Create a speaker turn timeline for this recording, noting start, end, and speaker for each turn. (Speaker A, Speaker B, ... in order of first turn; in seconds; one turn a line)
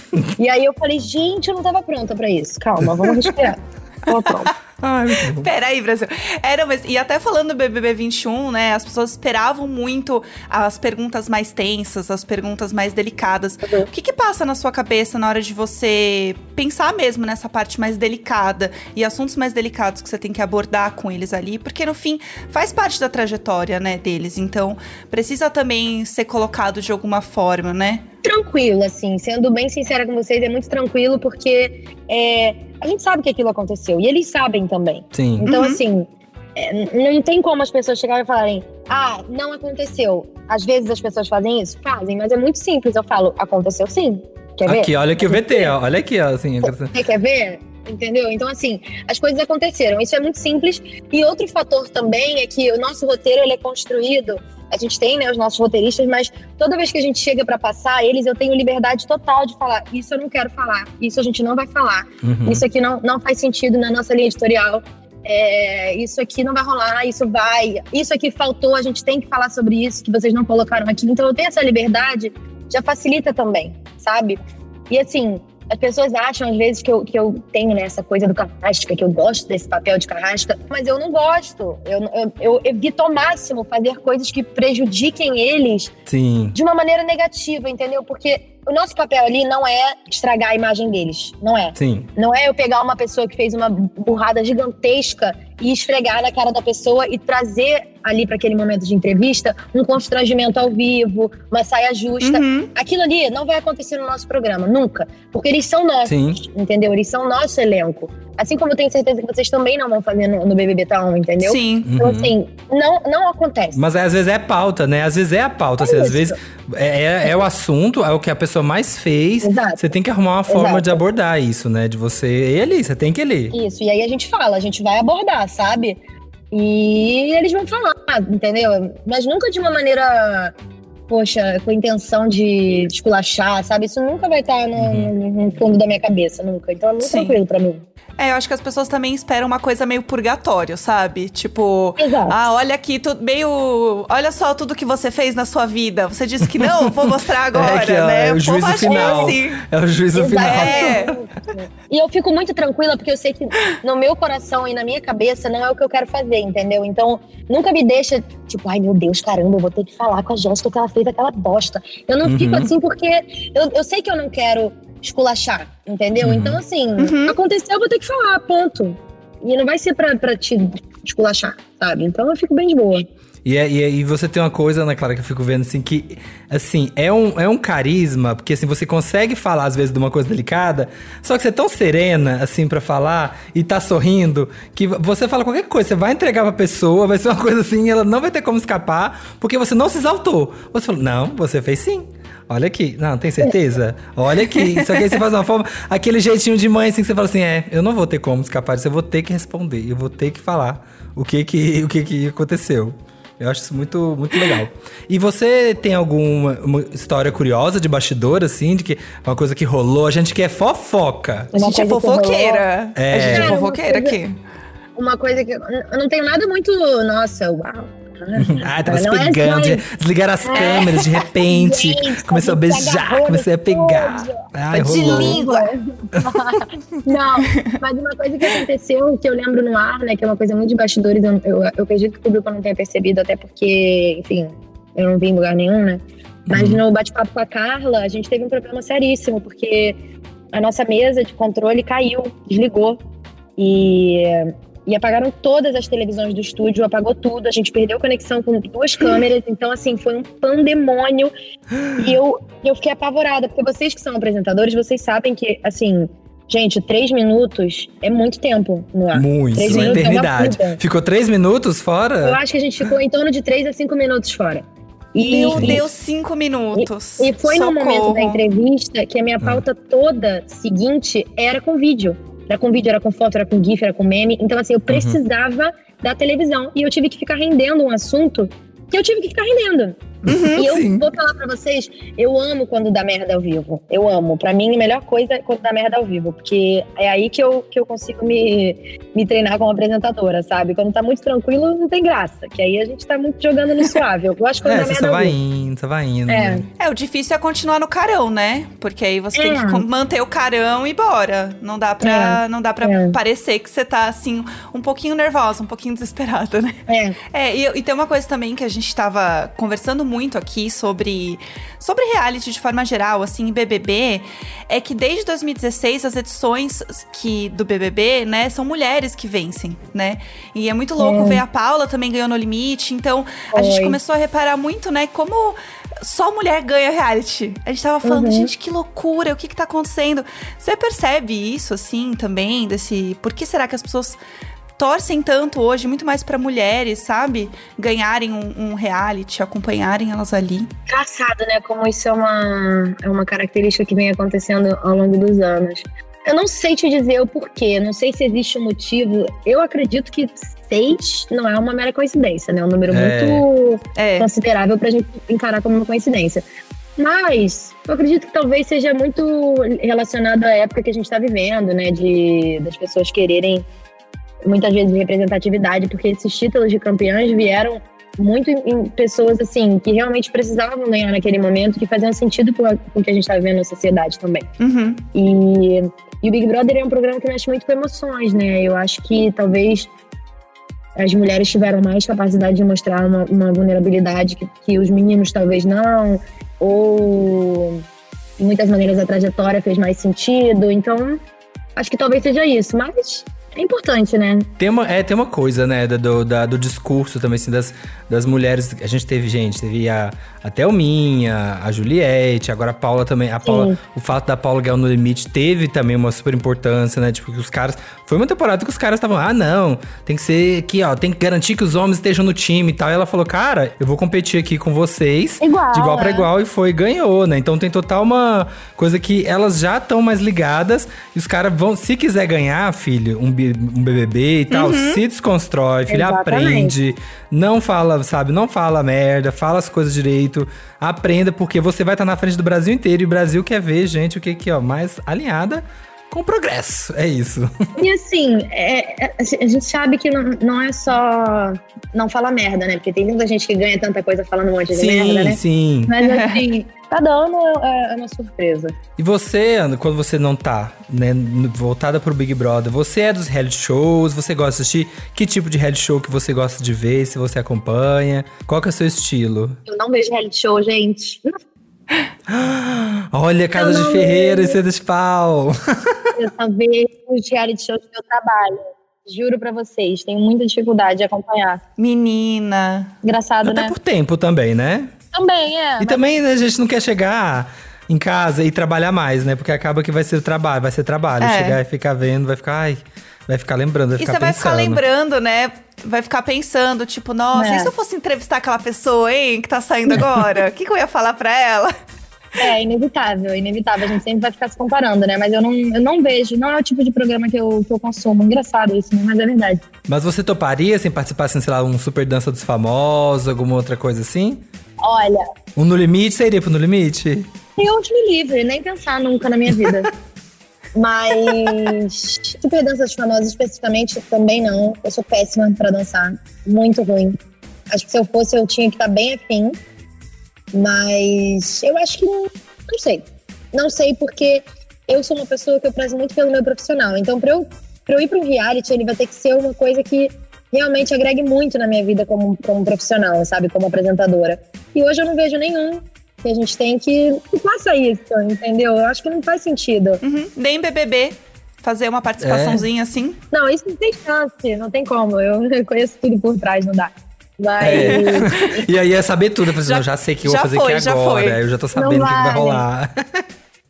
Speaker A: 0.4-4.5
Speaker B: 4.8-5.5
Speaker C: 5.4-28.0
Speaker A: 28.2-45.7
Speaker B: 35.1-35.5
Speaker C: 35.5-35.8
Speaker B: 44.6-46.9
Speaker A: 46.6-74.4
Speaker B: 62.2-62.6
Speaker A: 74.9-85.9
Speaker B: 86.1-86.5
Speaker A: 86.5-113.8
Speaker B: 91.8-92.1
Speaker C: 102.2-102.7
Speaker B: 106.0-106.4
Speaker C: 111.4-111.9
Speaker B: 111.8-112.3
Speaker B: 113.7-123.5
Speaker A: 115.8-116.4
Speaker A: 119.4-119.8
Speaker A: 120.5-121.0
Speaker A: 123.5-126.0
Speaker A: 126.5-130.5
Speaker A: 131.1-137.8
Speaker B: 134.8-135.1
Speaker C: 137.0-137.3
Speaker C: 138.2-149.6
Speaker A: 142.0-142.3
Speaker B: 147.5-151.2
Speaker A: 148.8-149.4
Speaker A: 150.1-173.1
Speaker C: 150.4-151.1
Speaker B: 162.2-162.7
Speaker B: 166.2-166.6
Speaker C: 167.0-167.3
Speaker B: 173.4-211.5
Speaker C: 194.6-195.1
Speaker A: 211.5-214.2
Speaker C: 211.6-214.3
Speaker B: 212.9-213.6
Speaker A: 214.9-219.8
Speaker B: 218.4-225.4
Speaker A: 220.4-240.0
Speaker C: 220.6-220.8
Speaker C: 224.8-225.7
Speaker C: 227.4-227.7
Speaker B: 236.5-236.8
Speaker A: 240.5-243.0
Speaker A: 243.6-251.3
Speaker B: 251.7-252.2
Speaker A: 252.0-260.8
Speaker B: 259.1-262.4
Speaker A: 262.2-265.8
Speaker C: 265.2-268.4
Speaker B: 265.5-265.8
Speaker A: 266.8-280.0
Speaker B: 274.9-275.2
Speaker C: 280.3-280.9
Speaker B: 280.3-280.9
Speaker A: 280.5-295.4
Speaker B: 294.6-296.6
Speaker A: 296.3-296.6
Speaker C: 296.8-306.8
Speaker A: 299.3-299.8
Speaker A: 302.0-303.2
Speaker A: 306.9-307.2
Speaker C: 307.3-334.2
Speaker A: 321.0-321.4
Speaker A: 323.5-324.0
Speaker A: 328.0-328.5
Speaker C: 334.8-340.7
Speaker A: 340.9-356.4
Speaker B: 352.9-353.4
Speaker C: 354.0-354.3
Speaker A: 357.0-363.6
Speaker A: 364.4-374.5
Speaker C: 374.6-375.0
Speaker A: 375.1-379.9
Speaker A: 380.9-387.8
Speaker A: 388.4-391.2
Speaker A: 391.8-394.5
Speaker B: 394.6-437.5
Speaker A: 403.4-403.8
Speaker A: 415.4-416.3
Speaker C: 424.5-425.0
Speaker A: 425.9-426.7
Speaker A: 437.8-448.7
Speaker B: 444.7-445.9
Speaker C: 446.0-446.4
Speaker B: 449.0-459.6
Speaker A: 459.6-461.4
Speaker B: 462.3-466.1
Speaker A: 463.5-464.6
Speaker A: 466.1-471.6
Speaker C: 471.8-472.9
Speaker A: 473.0-473.7
Speaker B: 473.4-474.9
Speaker A: 475.1-476.0
Speaker B: 475.8-484.8
Speaker C: 481.2-481.6
Speaker C: 484.0-491.7
Speaker A: 487.3-487.7
Speaker A: 492.4-499.6
Speaker B: 499.9-504.4
Speaker A: 504.8-505.2
Speaker B: 505.6-507.3
Speaker A: 507.6-509.9
Speaker A: 510.7-517.2
Speaker A: 517.7-519.6
Speaker A: 520.5-540.0
Speaker C: 540.0-543.2
Speaker B: 542.2-542.7
Speaker A: 543.3-548.7
Speaker B: 547.6-553.2
Speaker C: 547.7-548.3
Speaker C: 549.6-551.4
Speaker A: 551.7-552.6